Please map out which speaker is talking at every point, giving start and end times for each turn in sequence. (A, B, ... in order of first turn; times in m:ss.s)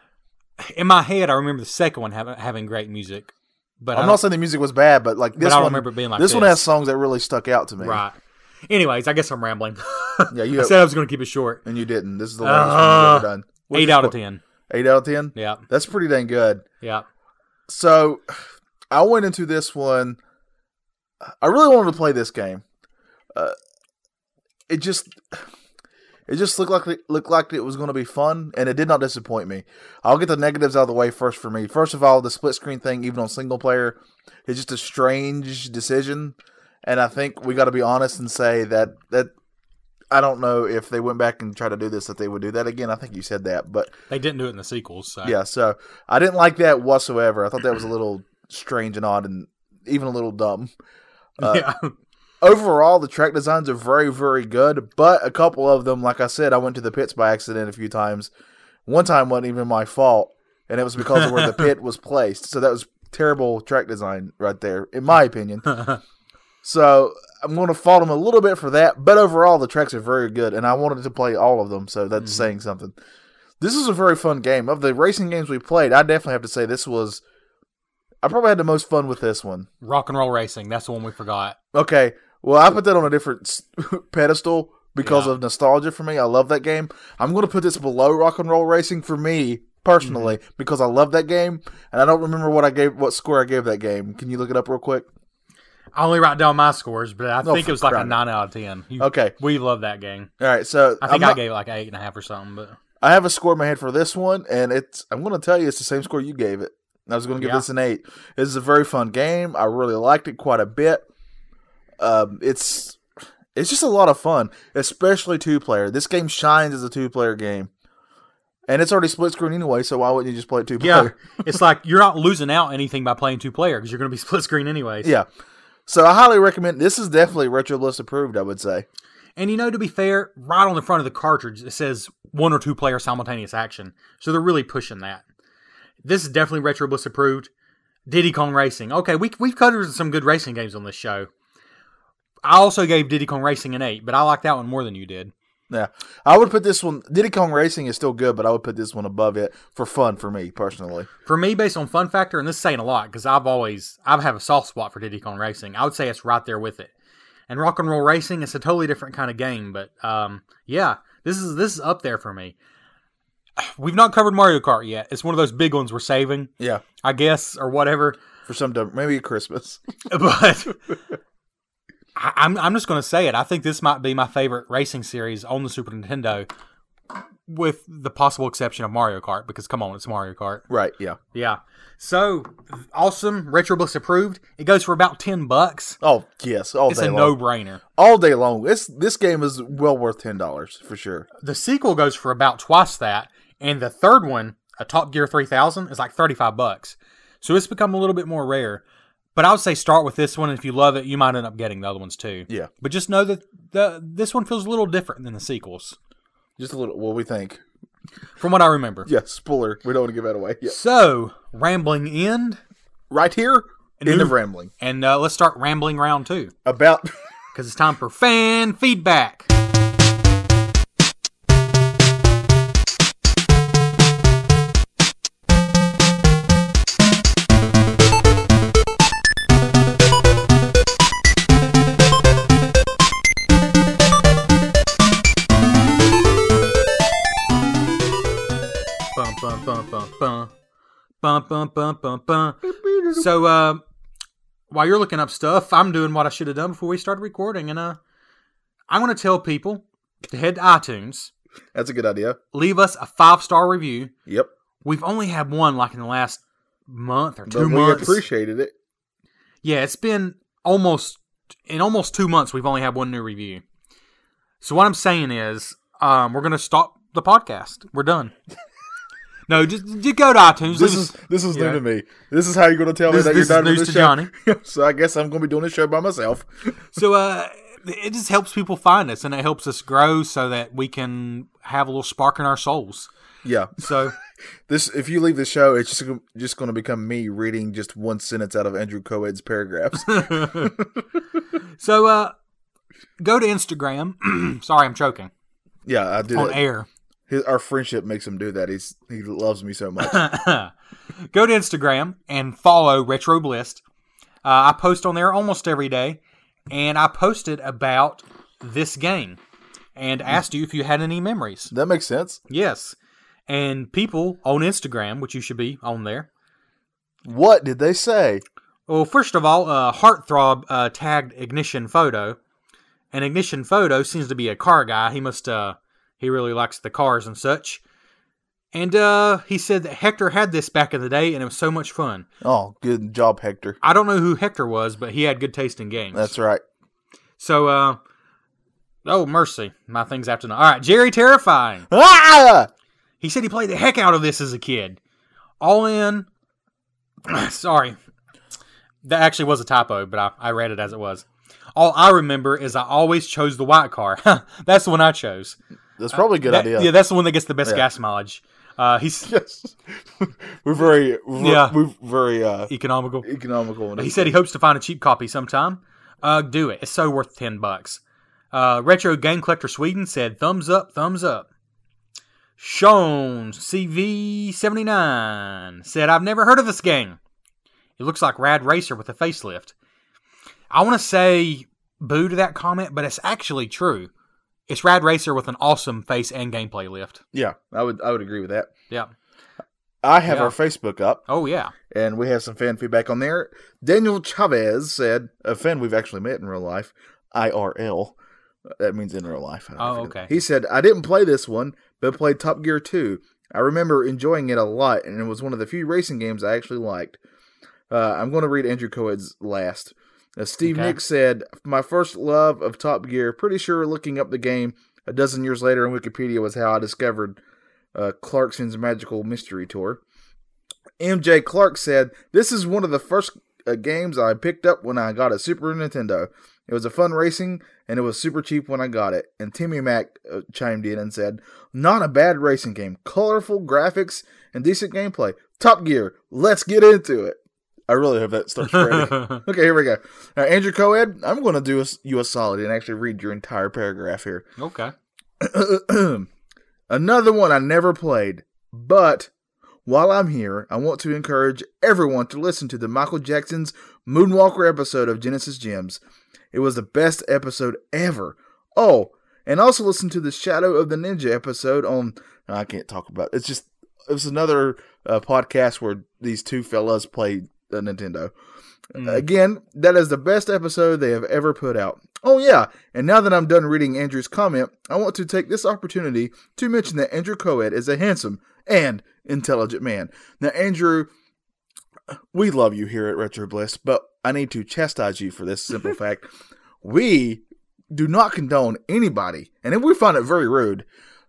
0:00.6-0:04.2 A
0:03.9-0:08.0 B
0:05.4-0:06.7 A
0:07.8-0:08.2 A
0:08.7-0:11.6 A
0:10.3-0:10.8 B
0:11.6-0:14.2 B
0:12.4-0:14.4 A
0:14.7-0:16.6 B
0:15.4-0:15.6 A
0:17.7-0:18.4 B
0:18.9-0:20.2 B
0:21.3-0:22.6 B
0:24.7-0:25.4 B
0:26.3-0:39.3 B
0:40.1-0:43.9 B
0:44.1-0:45.4 A
0:45.2-0:50.7 B
0:51.4-0:51.7 B
0:51.4-0:51.9 A
0:52.4-0:58.3 B
0:58.9-1:05.8 B
1:01.1-1:01.7 A
1:05.7-1:06.0 A
1:06.6-1:13.0 B
1:12.2-1:12.5 A
1:13.6-1:17.2 B
1:18.2-1:19.7 B
1:19.8-1:21.6 A
1:21.7-1:35.1 B
1:25.0-1:25.3 A
1:30.0-1:30.4 A
1:36.0-1:40.3 A
1:37.4-1:38.2 B
1:39.0-1:39.4 B
1:40.4-1:41.4 B
1:41.0-1:42.8 A
1:43.0-1:51.0 B
1:47.4-1:47.6 A
1:52.0-1:53.0 B
1:53.6-1:57.7 B
1:58.7-2:01.2 B
2:00.8-2:05.1 A
2:05.9-2:08.9 B
2:09.4-2:15.2 A
2:16.0-2:17.5 A
2:18.1-2:21.3 A
2:22.4-2:25.3 A
2:25.7-2:31.1 B
2:31.3-2:36.9 A
2:37.5-2:42.6 A
2:43.6-2:48.2 A
2:48.5-2:49.8 B
2:50.1-2:50.8 A
2:52.2-2:56.5 A
2:57.5-3:00.6 A
3:00.7-3:01.2 B
3:01.3-3:06.0 A
3:06.0-3:07.4 B
3:06.9-3:07.8 A
3:08.0-3:11.3 B
3:11.4-3:18.8 A
3:19.4-3:26.0 A
3:26.6-3:27.6 B
3:28.4-3:29.1 A
3:29.1-3:30.8 B
3:30.6-3:32.6 A
3:33.1-3:34.7 B
3:34.0-3:36.5 A
3:36.6-3:37.1 B
3:37.5-3:39.5 A
3:59.2-4:00.5 A
4:01.2-4:03.8 A
4:02.6-4:03.3 B
4:04.7-4:08.0 A
4:08.9-4:11.3 A
4:11.7-4:12.4 B
4:12.5-4:14.1 A
4:14.8-4:18.2 A
4:17.5-4:18.7 B
4:19.6-4:23.6 A
4:24.6-4:28.3 A
4:29.5-4:31.8 A
4:30.7-4:36.5 B
4:33.1-4:34.3 A
4:36.9-4:43.1 A
4:43.4-4:43.8 B
4:43.8-4:44.2 A
4:44.7-4:51.0 B
4:50.0-4:50.7 A
4:51.8-4:52.4 A
4:53.2-4:55.3 A
4:55.8-4:56.6 B
4:56.3-4:56.9 A
4:57.3-5:00.2 B
5:00.0-5:00.7 A
5:01.3-5:03.8 A
5:04.4-5:09.4 A
5:10.0-5:11.7 A
5:11.7-5:12.4 B
5:12.5-5:13.0 A
5:13.5-5:16.3 A
5:17.2-5:18.4 B
5:18.9-5:22.4 A
5:23.1-5:27.8 A
5:28.7-5:32.3 A
5:32.4-5:33.8 B
5:33.8-5:36.3 A
5:36.1-5:36.6 B
5:37.4-5:38.0 A
5:39.0-5:41.9 A
5:41.9-5:42.7 B
5:43.2-5:45.0 A
5:45.6-5:46.3 A
5:47.3-5:48.0 A
5:49.0-5:55.6 A
5:56.0-5:56.9 B
5:56.1-5:59.3 A
5:59.3-6:02.7 B
6:01.4-6:01.8 A
6:02.7-6:03.3 A
6:03.2-6:04.4 B
6:04.0-6:08.0 A
6:08.5-6:11.5 A
6:12.6-6:17.2 A
6:18.0-6:19.7 A
6:20.7-6:24.1 A
6:24.7-6:27.2 A
6:27.3-6:28.7 B
6:30.0-6:31.2 B
6:30.3-6:30.6 A
6:31.3-6:31.7 A
6:31.9-6:38.2 B
6:38.8-6:47.2 B
6:39.8-6:40.3 A
6:47.9-6:57.4 B
6:50.6-6:51.0 A
6:57.9-7:00.0 B
7:01.0-7:24.4 B
7:18.6-7:19.4 A
7:24.6-7:24.9 A
7:25.4-7:26.3 B
7:26.9-7:29.3 B
7:29.9-7:36.0 B
7:36.5-7:48.3 B
7:49.0-7:49.2 A
7:49.0-8:01.1 B
8:02.3-8:06.3 B
8:06.8-8:10.8 B